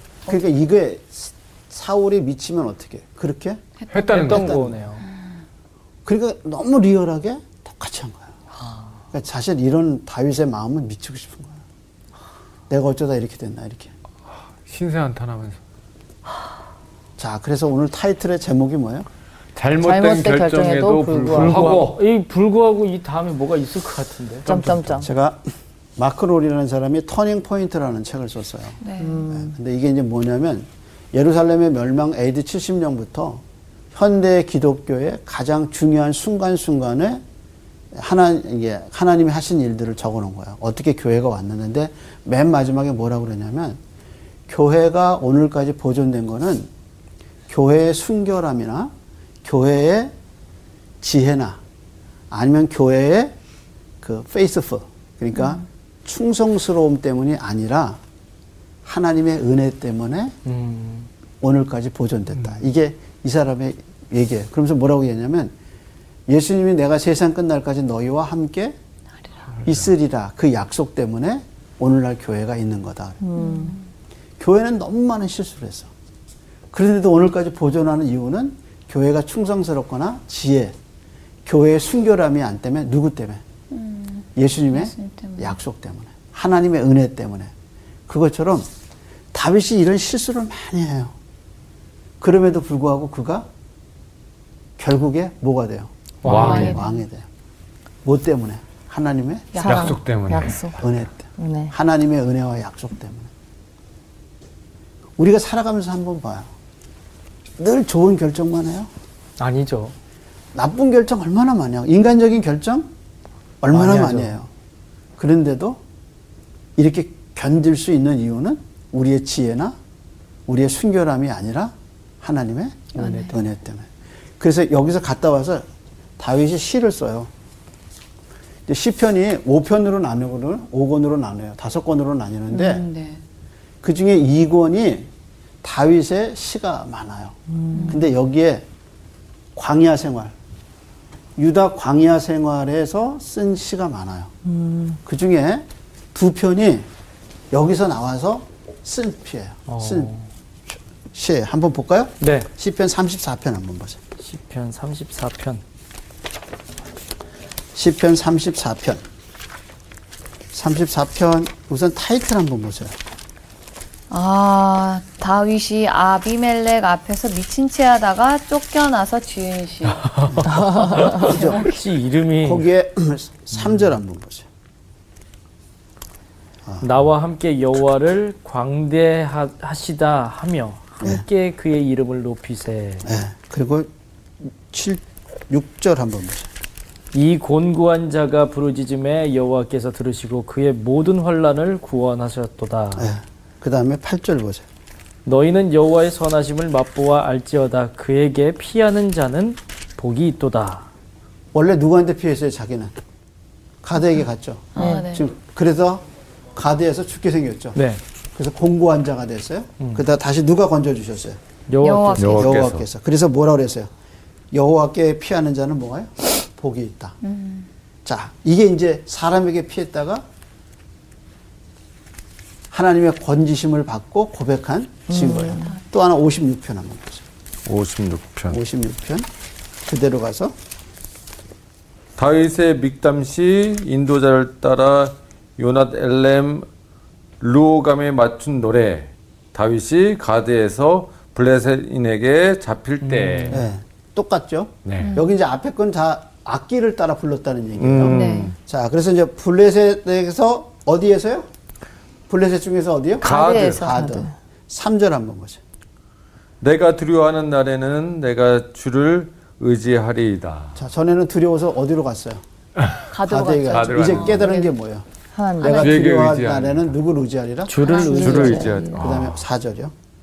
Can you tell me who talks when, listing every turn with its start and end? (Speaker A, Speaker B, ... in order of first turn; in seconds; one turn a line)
Speaker A: 0.3-3.6
Speaker B: 3.8-4.5
Speaker C: 3.9-4.6
Speaker D: 4.1-5.1
Speaker A: 4.3-4.8
Speaker A: 6.0-8.3
Speaker A: 9.1-11.6
Speaker A: 12.7-13.9
Speaker C: 14.7-15.6
Speaker A: 17.2-19.1
Speaker C: 19.6-22.0
Speaker E: 19.8-21.8
Speaker D: 21.3-24.7
Speaker E: 24.5-25.1
Speaker C: 24.5-25.0
Speaker A: 25.0-37.2
Speaker B: 28.8-29.3
Speaker E: 29.0-29.5
Speaker A: 37.9-43.8
Speaker A: 44.5-46.7
Speaker A: 47.5-48.9
Speaker A: 49.4-50.1
Speaker A: 51.0-51.6
Speaker A: 52.3-53.4
Speaker A: 54.0-58.0
Speaker A: 58.9-60.4
Speaker D: 60.5-61.1
Speaker A: 61.4-65.5
Speaker A: 66.3-68.8
Speaker C: 69.6-69.8
Speaker A: 69.7-73.2
Speaker E: 73.2-73.8
Speaker B: 73.4-73.8
Speaker A: 74.4-75.9
Speaker A: 76.7-80.8
Speaker A: 81.5-83.4
Speaker B: 83.7-85.5
Speaker A: 84.4-87.5
Speaker A: 88.1-88.7
Speaker A: 89.3-91.1
Speaker A: 92.2-93.5
Speaker A: 94.8-97.3
Speaker D: 96.2-96.8
Speaker C: 96.2-96.8
Speaker B: 96.3-97.0
Speaker A: 98.0-99.6
Speaker B: 99.5-100.0
Speaker E: 99.6-100.8
Speaker C: 99.6-100.8
Speaker A: 100.8-103.3
Speaker E: 101.4-101.7
Speaker A: 105.2-106.5
Speaker A: 107.6-108.9
Speaker D: 109.4-110.0
Speaker A: 110.5-112.9
Speaker A: 113.6-114.5
Speaker D: 113.7-114.4
Speaker A: 115.2-115.8
Speaker A: 116.8-119.8
Speaker A: 120.5-123.9
Speaker B: 123.0-123.4
Speaker A: 124.4-125.7
Speaker A: 126.2-127.3
Speaker A: 128.7-132.9
Speaker B: 132.5-133.2
Speaker A: 133.8-135.1
Speaker A: 135.6-137.4
Speaker E: 137.6-138.0
Speaker B: 137.7-138.1
Speaker A: 137.9-138.7
Speaker A: 139.6-140.3
Speaker A: 141.4-144.3
Speaker E: 144.5-145.0
Speaker A: 145.1-146.9
Speaker A: 147.5-150.1
Speaker D: 149.7-150.3
Speaker A: 150.7-154.0
Speaker D: 152.2-152.5
Speaker D: 154.2-155.6
Speaker A: 157.8-159.0
Speaker A: 160.5-163.0
Speaker B: 164.1-171.8
Speaker A: 170.3-171.7
Speaker E: 170.6-171.0
Speaker D: 170.7-172.7
Speaker A: 172.4-174.5
Speaker D: 176.8-183.1
Speaker A: 183.1-186.5
Speaker D: 187.1-193.1
Speaker A: 193.0-194.7
Speaker D: 195.2-200.9
Speaker A: 201.5-202.9
Speaker A: 203.8-207.8
Speaker B: 204.8-205.2
Speaker E: 204.8-205.0
Speaker D: 207.8-208.0
Speaker A: 208.3-211.4
Speaker D: 211.7-212.4
Speaker B: 211.8-212.6
Speaker C: 212.2-212.8
Speaker A: 212.3-213.9
Speaker A: 214.5-217.2
Speaker B: 217.2-217.7
Speaker A: 218.1-220.2
Speaker A: 222.7-227.2
Speaker E: 225.1-225.7
Speaker C: 227.7-228.6
Speaker A: 228.5-229.3
Speaker A: 229.8-230.6
Speaker C: 232.2-236.7
Speaker C: 237.4-243.7
Speaker D: 243.0-243.7
Speaker A: 243.5-251.5
Speaker C: 244.8-245.2
Speaker B: 245.0-245.3
Speaker C: 247.8-248.6
Speaker B: 248.1-248.5
Speaker A: 252.3-255.6
Speaker C: 253.2-254.1
Speaker B: 253.2-253.9
Speaker E: 253.3-254.3
Speaker C: 256.6-260.8
Speaker A: 260.8-262.4
Speaker B: 263.1-264.7
Speaker A: 263.2-265.1
Speaker C: 263.7-264.5
Speaker E: 265.4-265.9
Speaker A: 265.6-269.9
Speaker B: 265.6-266.0
Speaker C: 265.7-266.9
Speaker D: 267.7-268.0
Speaker B: 267.8-269.0
Speaker E: 267.8-268.9
Speaker C: 267.9-269.4